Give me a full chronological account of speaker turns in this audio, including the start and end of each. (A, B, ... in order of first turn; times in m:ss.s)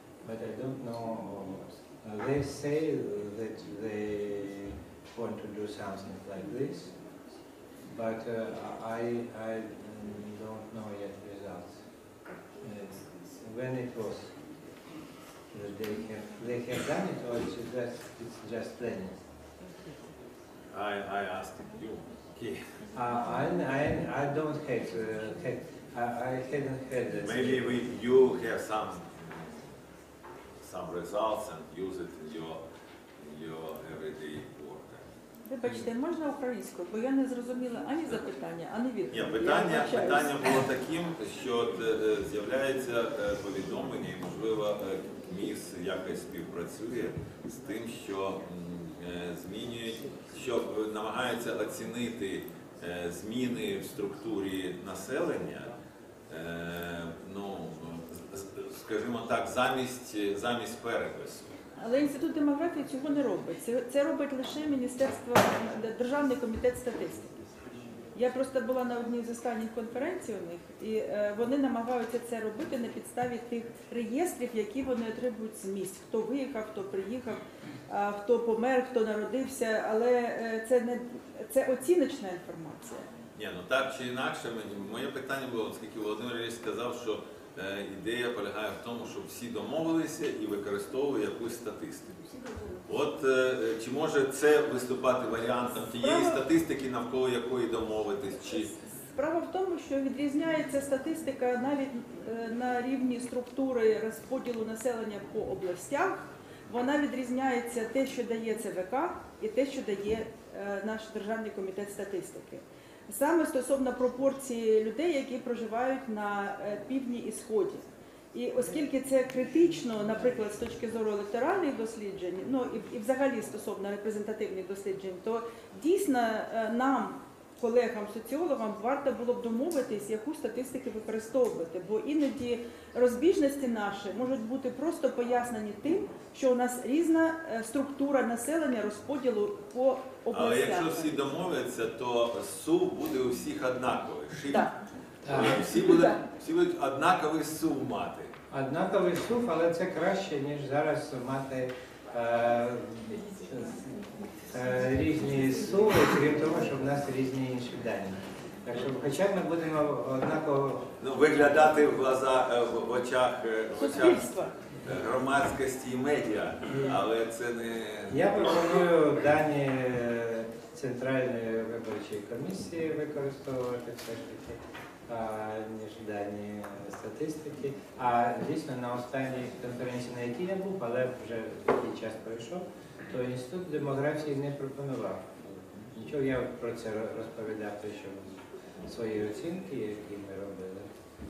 0:00.2-0:06.9 A
0:07.9-0:11.8 A
0:12.6-0:14.3 A
0:15.5-0:19.2 A
0:20.7-0:22.6 B
0:22.9-0:27.8 A
0:27.2-0:29.2 B
0:30.6-0:32.6 B
0:33.2-0:35.1 B
0:35.4-0:40.6 C
0:39.1-0:55.7 B
0:56.3-1:01.5 B
1:01.8-1:07.3 C
1:08.1-1:23.1 C
1:23.3-1:32.3 B
1:32.8-1:38.7 B
1:36.0-1:36.4 C
1:39.1-2:21.2 C
2:20.3-2:24.7 B
2:25.2-2:25.7 A
2:25.2-2:28.3 B
2:28.5-2:34.0 A
2:34.5-2:41.0 A
2:41.0-2:48.6 B
2:43.8-2:44.5 C
2:46.7-2:46.9 A
2:48.1-3:05.3 A
3:05.9-3:08.3 A
3:08.8-3:10.9 A